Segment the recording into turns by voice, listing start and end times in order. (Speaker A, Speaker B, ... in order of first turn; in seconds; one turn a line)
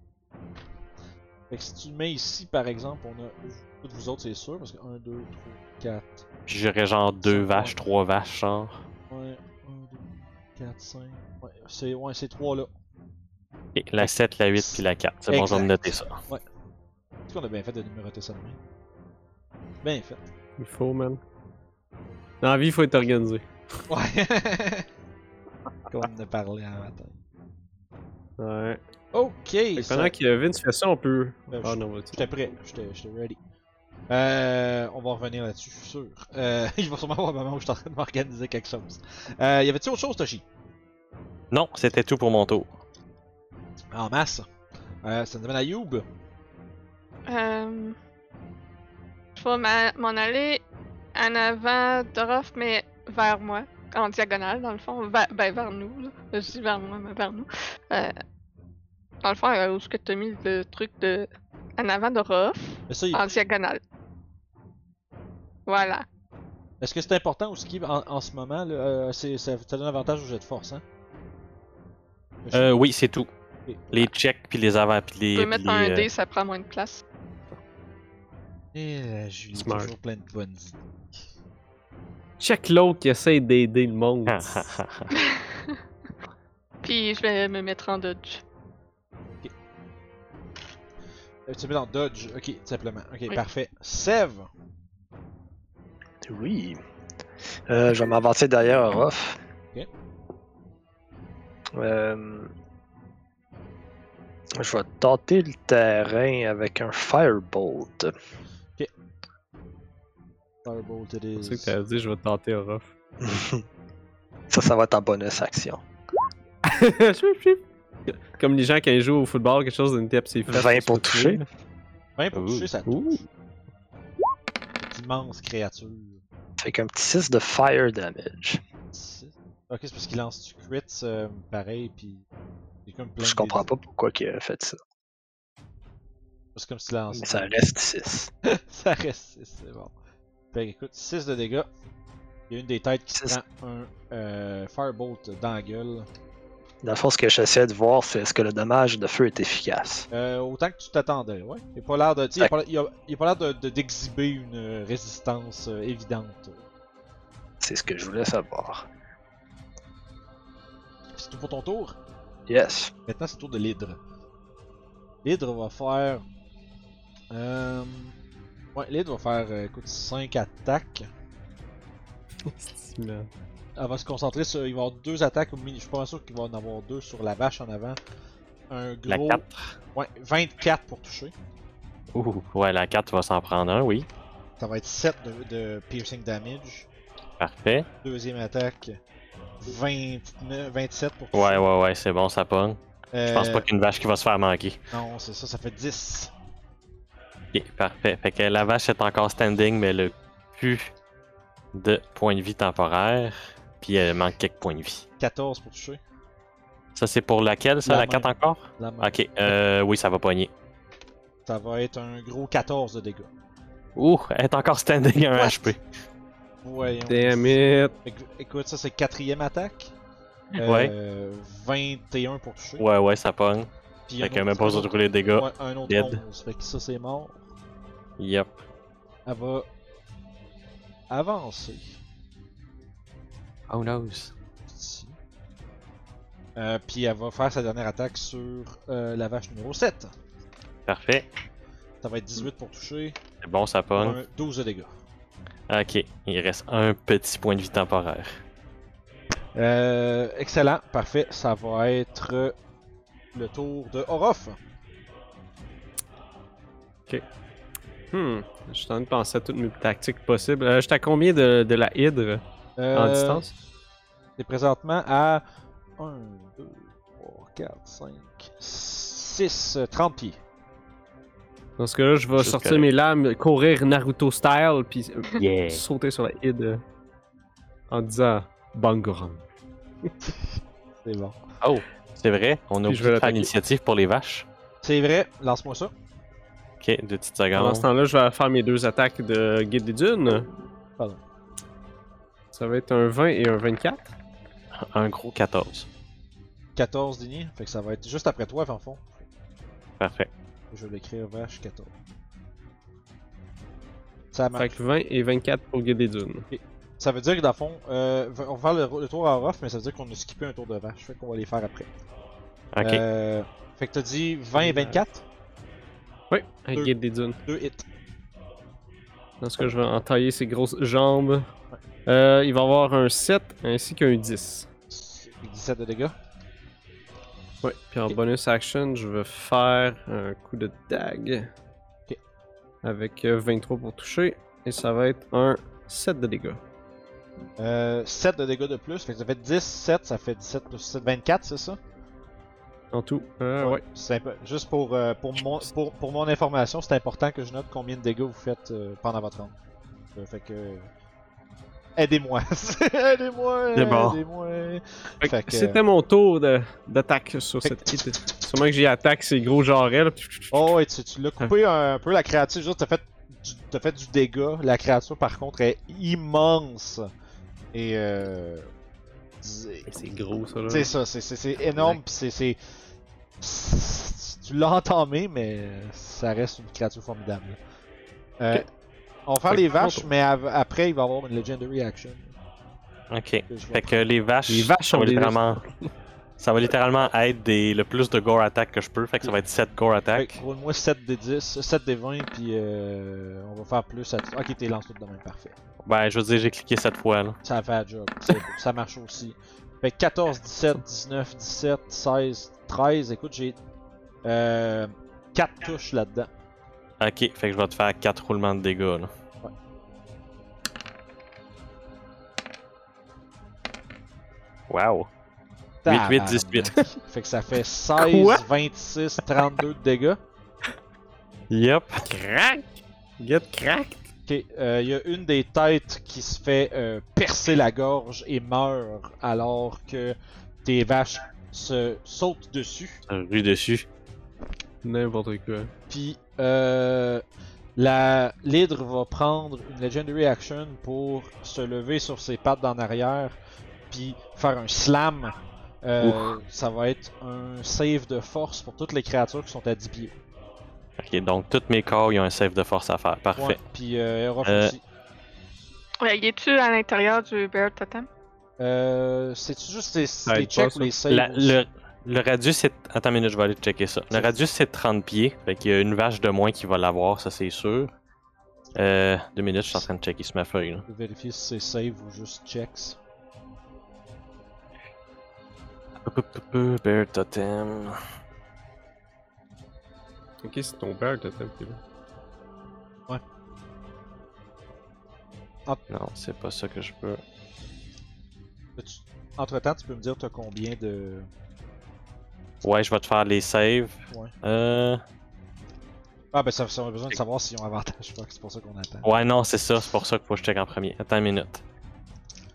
Speaker A: 1.5-6.2
Speaker B: 6.5-8.8
Speaker A: 7.2-7.8
Speaker A: 9.1-12.7
Speaker B: 13.8-16.2
Speaker A: 14.0-16.4
Speaker A: 17.3-18.6
Speaker A: 19.8-20.3
Speaker C: 20.6-21.2
Speaker C: 22.4-23.5
Speaker A: 23.9-24.9
Speaker A: 25.9-27.2
Speaker C: 28.4-28.8
Speaker A: 29.1-30.1
Speaker C: 29.8-32.2
Speaker A: 31.5-33.4
Speaker A: 34.1-40.4
Speaker B: 41.5-42.7
Speaker A: 43.9-44.5
Speaker A: 45.0-46.0
Speaker D: 47.2-48.0
Speaker D: 49.4-50.6
Speaker D: 51.1-58.2
Speaker D: 59.2-63.8
Speaker A: 62.9-63.2
Speaker D: 65.7-66.0
Speaker A: 66.8-70.8
Speaker A: 72.4-72.7
Speaker B: 72.5-73.3
Speaker A: 73.7-74.1
Speaker B: 73.9-76.1
Speaker D: 75.3-77.0
Speaker A: 78.7-80.9
Speaker C: 79.6-79.9
Speaker C: 82.4-84.7
Speaker B: 84.2-85.1
Speaker D: 85.1-85.8
Speaker D: 86.8-88.4
Speaker A: 91.5-94.5
Speaker E: 96.2-96.8
Speaker E: 97.7-99.4
Speaker E: 101.8-102.5
Speaker E: 104.6-108.1
Speaker A: 110.6-111.8
Speaker C: 111.4-112.9
Speaker E: 113.2-113.6
Speaker E: 114.5-115.8
Speaker C: 116.7-121.4
Speaker E: 120.5-121.4
Speaker A: 122.2-123.2
Speaker B: 122.3-122.7
Speaker C: 122.9-123.2
Speaker A: 124.8-126.2
Speaker E: 126.6-128.6
Speaker A: 128.9-132.2
Speaker A: 132.9-133.7
Speaker E: 133.2-134.8
Speaker A: 136.5-137.5
Speaker E: 137.1-138.3
Speaker A: 138.4-139.9
Speaker A: 140.5-141.7
Speaker A: 142.5-146.1
Speaker E: 146.8-150.1
Speaker A: 150.1-156.6
Speaker E: 157.6-158.9
Speaker A: 161.2-162.0
Speaker E: 162.5-162.9
Speaker A: 163.1-164.0
Speaker A: 165.2-166.2
Speaker A: 167.3-168.2
Speaker A: 168.8-171.1
Speaker C: 172.4-173.3
Speaker A: 173.8-178.0
Speaker A: 178.7-179.4
Speaker B: 179.1-179.6
Speaker A: 179.9-181.3
Speaker B: 182.1-184.1
Speaker A: 184.6-186.9
Speaker B: 187.4-187.9
Speaker A: 188.0-189.0
Speaker A: 189.6-191.6
Speaker B: 191.3-194.8
Speaker A: 193.1-193.7
Speaker A: 194.9-196.3
Speaker B: 197.5-200.9
Speaker B: 201.7-205.1
Speaker A: 205.2-206.0
Speaker B: 206.9-210.5
Speaker A: 207.8-209.2
Speaker A: 211.5-213.3
Speaker B: 213.9-215.8
Speaker A: 215.4-215.7
Speaker A: 216.6-219.9
Speaker C: 217.1-218.0
Speaker B: 220.6-220.9
Speaker A: 220.6-222.8
Speaker B: 222.8-226.2
Speaker A: 224.1-227.4
Speaker B: 228.2-228.6
Speaker A: 229.2-229.7
Speaker A: 231.1-232.0
Speaker B: 233.7-234.3
Speaker A: 234.7-235.2
Speaker A: 236.6-240.1
Speaker B: 240.9-241.3
Speaker A: 242.0-243.2
Speaker B: 243.4-244.2
Speaker A: 243.9-244.9
Speaker B: 245.7-248.4
Speaker A: 249.5-252.5
Speaker A: 253.3-254.6
Speaker C: 258.1-262.4
Speaker A: 262.8-263.4
Speaker C: 262.9-263.5
Speaker A: 264.4-265.4
Speaker A: 266.0-270.4
Speaker C: 271.8-276.8
Speaker B: 272.4-272.9
Speaker B: 275.4-275.8
Speaker C: 277.9-279.4
Speaker A: 281.0-281.4
Speaker B: 281.6-284.5
Speaker C: 282.9-283.5
Speaker A: 284.8-285.9
Speaker B: 286.8-287.9
Speaker C: 287.5-290.5
Speaker C: 292.5-294.1
Speaker B: 294.7-295.9
Speaker A: 296.8-299.2
Speaker B: 300.0-300.3
Speaker A: 300.7-301.9
Speaker A: 304.3-304.8
Speaker C: 304.6-306.5
Speaker A: 306.5-311.9
Speaker B: 312.8-313.0
Speaker A: 312.8-315.2
Speaker C: 314.6-315.0
Speaker C: 316.3-317.4
Speaker A: 317.5-317.9
Speaker C: 319.4-321.5
Speaker C: 322.1-324.7
Speaker A: 324.9-326.1
Speaker C: 327.6-331.5
Speaker C: 332.8-336.6
Speaker A: 337.6-341.8
Speaker C: 342.9-343.8
Speaker A: 343.6-349.5
Speaker A: 350.1-350.9
Speaker A: 352.0-355.8
Speaker B: 353.8-354.2
Speaker C: 355.2-360.7
Speaker A: 357.6-358.1
Speaker A: 360.5-367.1
Speaker A: 367.7-368.7
Speaker A: 369.4-369.9
Speaker C: 369.9-370.9
Speaker A: 370.6-372.6
Speaker A: 373.4-377.6
Speaker A: 378.4-378.6
Speaker A: 379.3-382.4
Speaker C: 379.5-380.1
Speaker B: 383.1-385.6
Speaker A: 383.5-384.0
Speaker C: 384.5-385.7
Speaker B: 386.4-390.4
Speaker A: 390.1-395.6
Speaker B: 395.8-397.4
Speaker A: 397.4-403.6
Speaker A: 404.2-406.3
Speaker B: 407.0-409.1
Speaker B: 414.7-415.1
Speaker A: 415.8-420.2
Speaker B: 415.9-416.8
Speaker C: 418.0-418.4
Speaker B: 421.5-422.1
Speaker C: 422.1-424.1
Speaker A: 424.3-433.0
Speaker B: 433.1-433.9
Speaker C: 434.8-435.7
Speaker A: 435.9-437.2
Speaker A: 437.8-443.4
Speaker A: 443.9-450.1
Speaker B: 451.0-453.6
Speaker A: 453.4-454.8
Speaker B: 454.4-454.7
Speaker D: 456.0-458.1
Speaker A: 458.6-461.6
Speaker C: 460.3-460.9
Speaker B: 461.1-467.9
Speaker A: 464.1-464.4
Speaker B: 468.7-470.9
Speaker A: 470.9-473.0
Speaker B: 476.0-478.0
Speaker C: 480.4-481.8
Speaker B: 485.9-487.2
Speaker A: 488.8-491.3
Speaker B: 492.6-495.0
Speaker A: 496.3-499.1
Speaker B: 499.0-501.6